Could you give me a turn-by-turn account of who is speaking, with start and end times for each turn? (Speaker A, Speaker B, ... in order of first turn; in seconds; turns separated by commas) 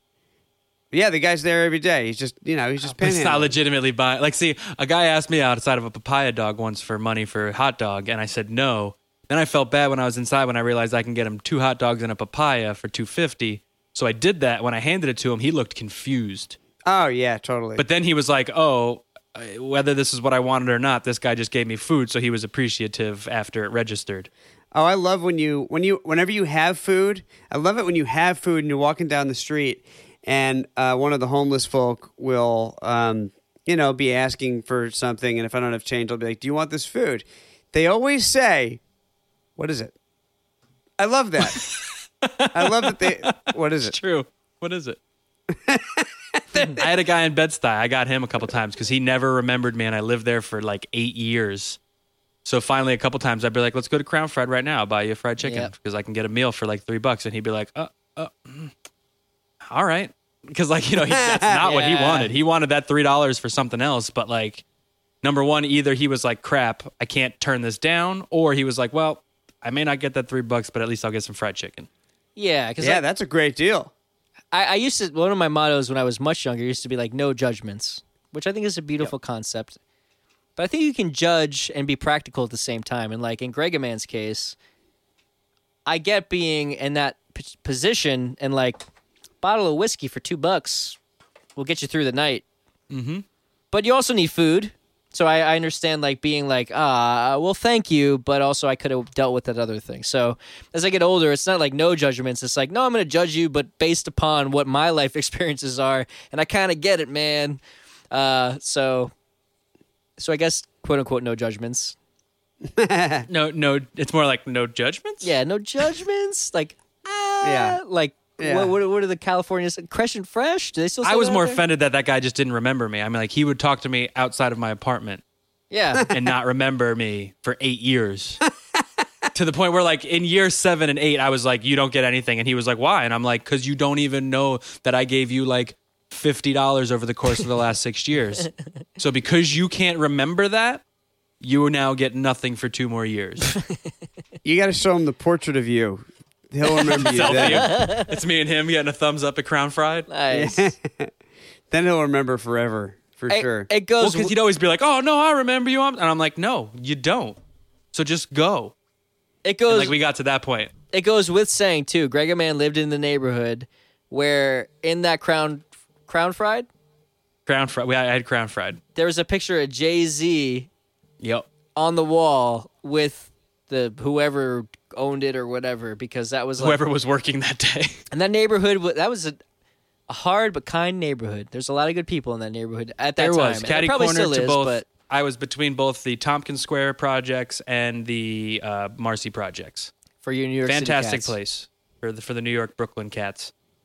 Speaker A: 0.9-3.5, Speaker B: 2.9-16.6, Speaker A: 16.9-17.8, Speaker B: 17.8-24.3, Speaker A: 24.7-38.8, Speaker A: 39.6-39.9, Speaker A: 41.0-41.6, Speaker B: 41.4-45.0, Speaker A: 42.5-44.0, Speaker A: 45.5-46.9, Speaker B: 46.6-51.8, Speaker B: 52.4-58.7, Speaker C: 55.4-55.7, Speaker B: 59.7-64.6, Speaker A: 60.9-61.7, Speaker C: 61.6-62.3, Speaker B: 65.2-71.9, Speaker C: 72.3-73.0, Speaker A: 72.8-73.9, Speaker C: 74.5-79.8, Speaker C: 80.5-84.5, Speaker C: 85.8-88.8, Speaker C: 89.4-91.0, Speaker C: 91.5-92.4, Speaker B: 92.9-93.2, Speaker C: 93.7-109.1, Speaker C: 110.2-112.0, Speaker A: 112.6-113.3, Speaker B: 113.3-115.3, Speaker C: 115.2-121.6, Speaker A: 117.4-117.8, Speaker A: 118.4-118.7, Speaker B: 121.0-125.2, Speaker C: 125.7-126.1, Speaker B: 126.1-128.4, Speaker B: 129.3-140.8, Speaker B: 141.4-143.6, Speaker A: 144.4-147.7, Speaker B: 146.7-150.1, Speaker C: 147.3-148.1, Speaker C: 150.1-150.7, Speaker A: 150.3-151.1, Speaker A: 151.7-153.7, Speaker C: 153.3-154.3, Speaker B: 154.0-157.4, Speaker B: 157.9-158.7, Speaker C: 159.4-159.9, Speaker B: 159.7-160.7, Speaker C: 160.9-166.7, Speaker B: 167.4-168.8, Speaker C: 168.9-170.7, Speaker B: 171.2-171.4, Speaker C: 171.8-176.8, Speaker B: 176.6-178.0, Speaker C: 178.1-179.4, Speaker C: 180.1-184.9, Speaker B: 183.2-189.9, Speaker C: 190.2-191.3, Speaker B: 190.7-193.5